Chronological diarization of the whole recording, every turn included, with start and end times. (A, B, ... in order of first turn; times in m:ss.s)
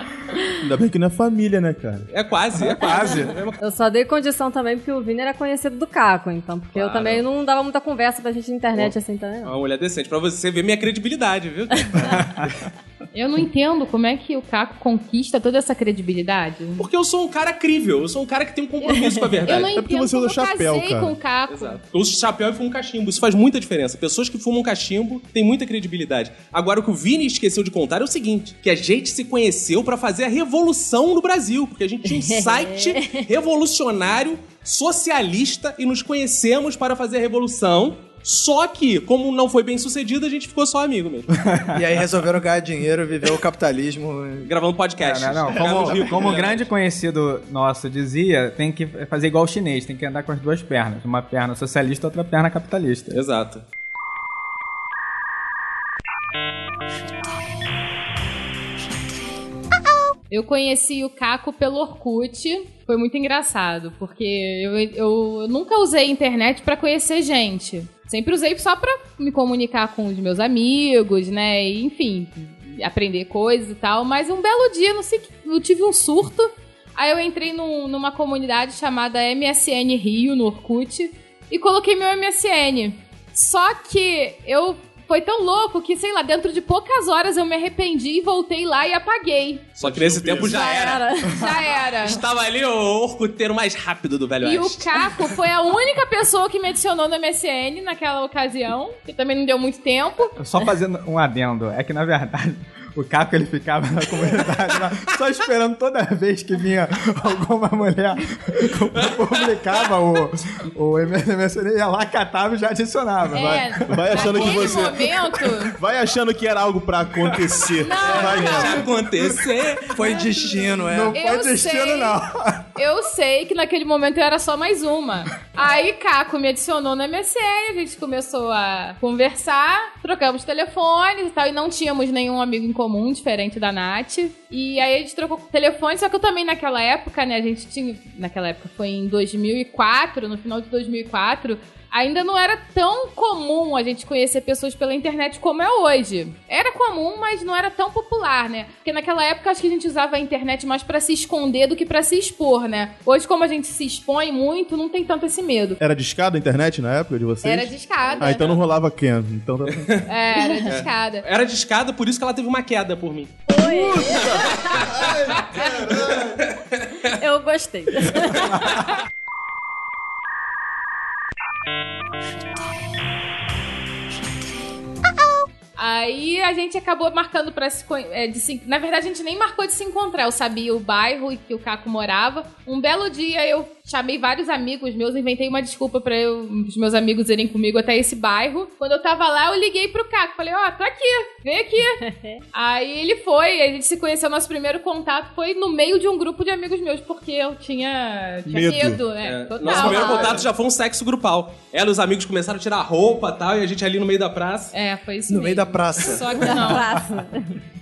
0:00.6-0:02.1 A
0:02.1-0:03.6 B
0:02.6-0:03.4 C
0:03.6-0:09.5 D
0:06.7-0:07.2 B
0:08.7-0:12.3 B
0:12.0-0:12.7 C
0:13.1-0:16.8 E
0:16.8-0:19.7 B
0:18.9-0:21.8 E
0:19.0-0:19.3 D
0:19.7-0:21.1 A
0:21.5-0:41.5 B
0:32.0-0:33.3 D
0:41.3-0:41.8 C
0:41.7-0:44.5 F
0:44.4-0:46.7 B
0:45.0-0:53.2 C
0:45.6-0:46.3 F
0:45.7-0:46.2 A
0:53.1-0:53.6 B
1:00.3-1:29.8 E
1:29.8-1:31.0 B
1:29.8-1:30.5 A
1:30.4-1:32.2 E
1:30.5-1:31.5 D
1:32.0-1:34.9 B
1:34.4-1:40.3 E
1:40.4-1:54.1 C
1:49.0-1:49.9 B
1:53.3-1:55.0 A
1:53.3-1:55.7 E
1:54.3-1:54.9 B
1:55.7-1:58.8 A
1:57.8-1:58.8 E
1:58.1-2:00.2 B
1:59.9-2:02.1 F
2:00.1-2:00.5 E
2:00.9-2:01.2 C
2:01.1-2:02.2 E
2:02.1-2:02.6 C
2:02.8-2:35.8 E
2:35.8-2:40.0 A
2:37.4-2:38.5 E
2:39.7-2:40.1 B
2:40.0-2:41.2 E
2:40.4-2:40.7 D
2:40.7-2:43.5 B
2:43.5-2:44.4 D
2:43.6-2:46.4 A
2:44.3-2:45.1 B
2:46.4-2:47.1 B
2:47.1-2:48.6 D
2:55.8-3:20.4 E
3:12.0-3:12.4 D
3:18.4-3:19.0 A
3:19.2-3:24.7 B
3:24.7-3:26.9 E
3:25.3-3:26.3 F
3:26.4-3:27.6 D